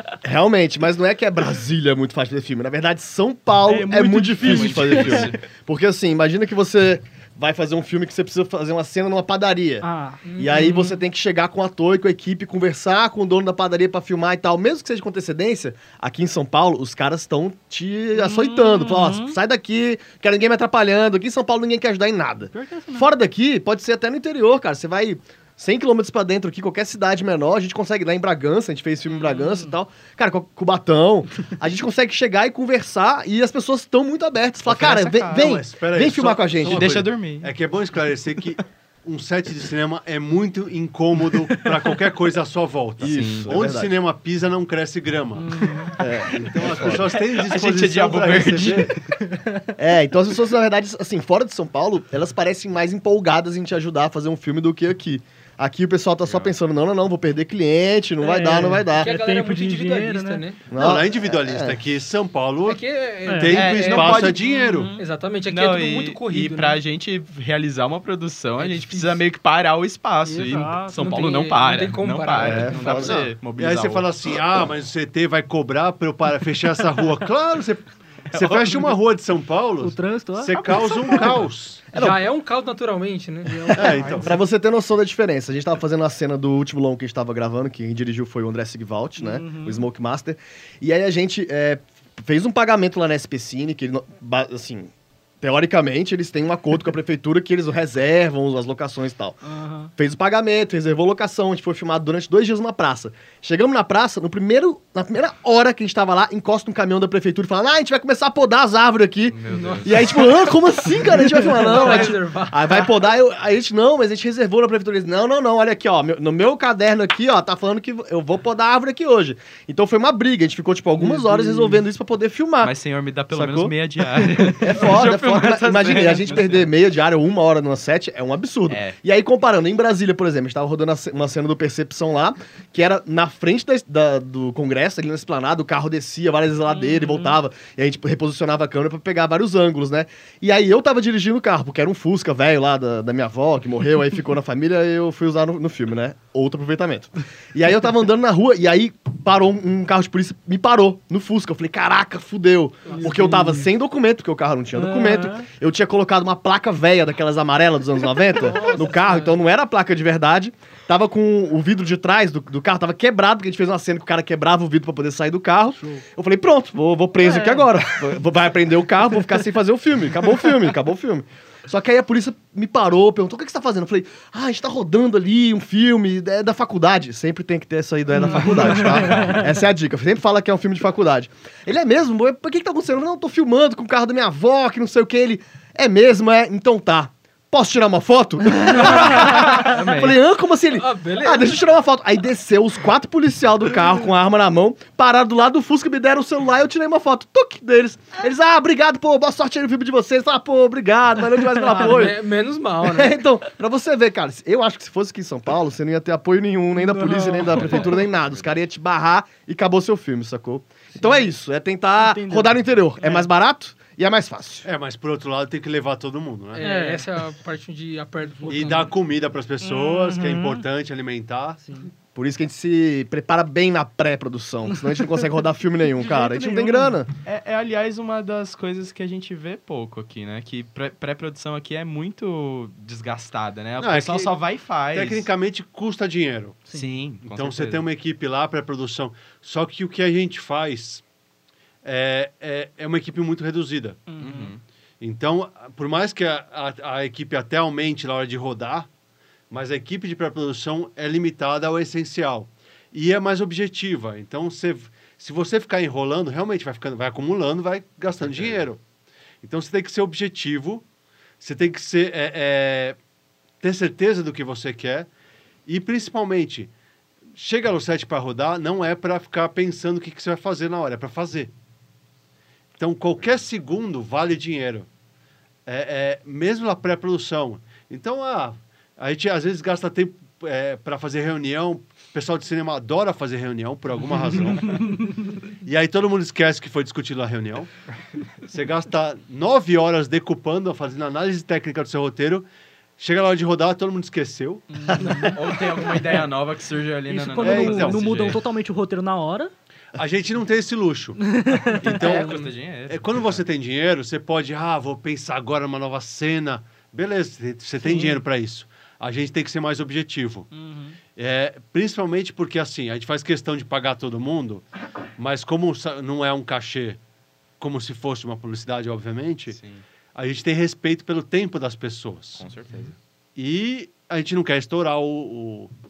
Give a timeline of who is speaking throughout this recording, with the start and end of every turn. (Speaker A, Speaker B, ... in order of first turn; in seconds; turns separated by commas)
Speaker A: 0.2-36.9, Speaker B: 3.7-5.3, Speaker C: 4.4-5.4, Speaker B: 9.8-11.0, Speaker D: 10.2-10.8, Speaker B: 18.1-19.4, Speaker B: 22.5-23.1, Speaker B: 29.1-29.8, Speaker C: 34.7-35.5, Speaker E: 35.3-45.7, Speaker C: 36.6-37.5, Speaker A: 43.0-43.9, Speaker C: 43.0-43.5, Speaker B: 45.4-46.0, Speaker C: 46.0-49.0, Speaker A: 46.0-47.0, Speaker E: 46.3-49.0, Speaker B: 49.3-49.7, Speaker A: 49.8-59.1, Speaker C: 56.3-56.5, Speaker B: 58.2-60.5, Speaker D: 59.0-60.7, Speaker A: 60.7-61.8, Speaker E: 60.7-62.8, Speaker D: 62.6-66.8, Speaker B: 63.2-63.5, Speaker E: 63.4-64.9, Speaker C: 63.5-64.4, Speaker B: 64.4-65.1, Speaker C: 65.5-74.1, Speaker D: 68.6-69.2, Speaker D: 70.3-73.2, Speaker B: 70.5-71.1, Speaker A: 72.4-73.3, Speaker E: 72.9-81.9, Speaker C: 78.3-79.0, Speaker B: 79.8-80.7, Speaker C: 80.5-81.5, Speaker D: 81.9-83.9, Speaker A: 81.9-82.2, Speaker B: 83.5-84.4, Speaker E: 83.8-84.3, Speaker A: 84.1-99.4, Speaker B: 89.2-89.9, Speaker B: 99.4-99.9, Speaker A: 100.0-122.7, Speaker C: 109.3-110.0, Speaker D: 109.5-110.2, Speaker D: 111.2-113.0, Speaker C: 111.8-112.1, Speaker D: 121.0-121.8, Speaker C: 122.6-126.7, Speaker A: 123.3-123.8, Speaker A: 124.6-202.2, Speaker C: 128.7-129.0, Speaker B: 136.7-137.4, Speaker D: 152.9-153.5, Speaker B: 152.9-153.6, Speaker B: 154.8-155.5, Speaker B: 158.3-159.3, Speaker B: 165.8-166.0, Speaker B: 167.2-167.7, Speaker B: 178.2-179.5, Speaker C: 189.4-190.2, Speaker D: 190.7-191.6, Speaker B: 201.4-201.9, Speaker D: 201.7-203.2, Speaker A: 202.8-214.7, Speaker B: 206.8-208.0, Speaker C: 207.5-208.5, Speaker B: 210.9-211.2, Speaker B: 212.0-213.2, Speaker E: 214.6-216.7, Speaker D: 216.5-218.9, Speaker B: 216.6-217.1, Speaker B: 218.4-218.9, Speaker E: 218.5-221.6, Speaker B: 219.6-220.6, Speaker B: 221.6-221.9, Speaker A: 222.2-227.1, Speaker B: 224.7-225.3, Speaker B: 226.0-226.9, Speaker C: 227.2-235.3, Speaker E: 233.8-234.3, Speaker E: 234.9-236.6, Speaker C: 236.7-237.8, Speaker E: 237.3-241.0, Speaker E: 241.8-244.0, Speaker B: 244.1-244.5, Speaker C: 244.2-244.6, Speaker E: 245.0-248.9, Speaker E: 249.5-258.8, Speaker C: 258.2-258.7, Speaker E: 259.4-260.9, Speaker E: 261.4-263.0, Speaker E: 263.6-265.1, Speaker E: 265.7-266.7, Speaker E: 267.4-271.5, Speaker E: 272.8-274.9, Speaker E: 275.7-285.0, Speaker B: 284.7-285.2, Speaker E: 285.6-287.7, Speaker E: 288.5-292.5, Speaker E: 293.0-294.8, Speaker B: 294.7-295.4, Speaker C: 295.3-298.4, Speaker B: 297.1-299.5, Speaker E: 297.4-298.3, Speaker E: 299.9-301.2, Speaker B: 301.2-302.3, Speaker E: 301.8-310.5, Speaker C: 301.8-303.4, Speaker B: 307.8-308.2, Speaker B: 310.5-311.0, Speaker E: 311.1-314.6, Speaker E: 315.2-317.0, Speaker E: 317.6-319.6, Speaker C: 319.5-319.8, Speaker E: 320.1-322.5, Speaker C: 322.4-322.9, Speaker E: 323.4-325.7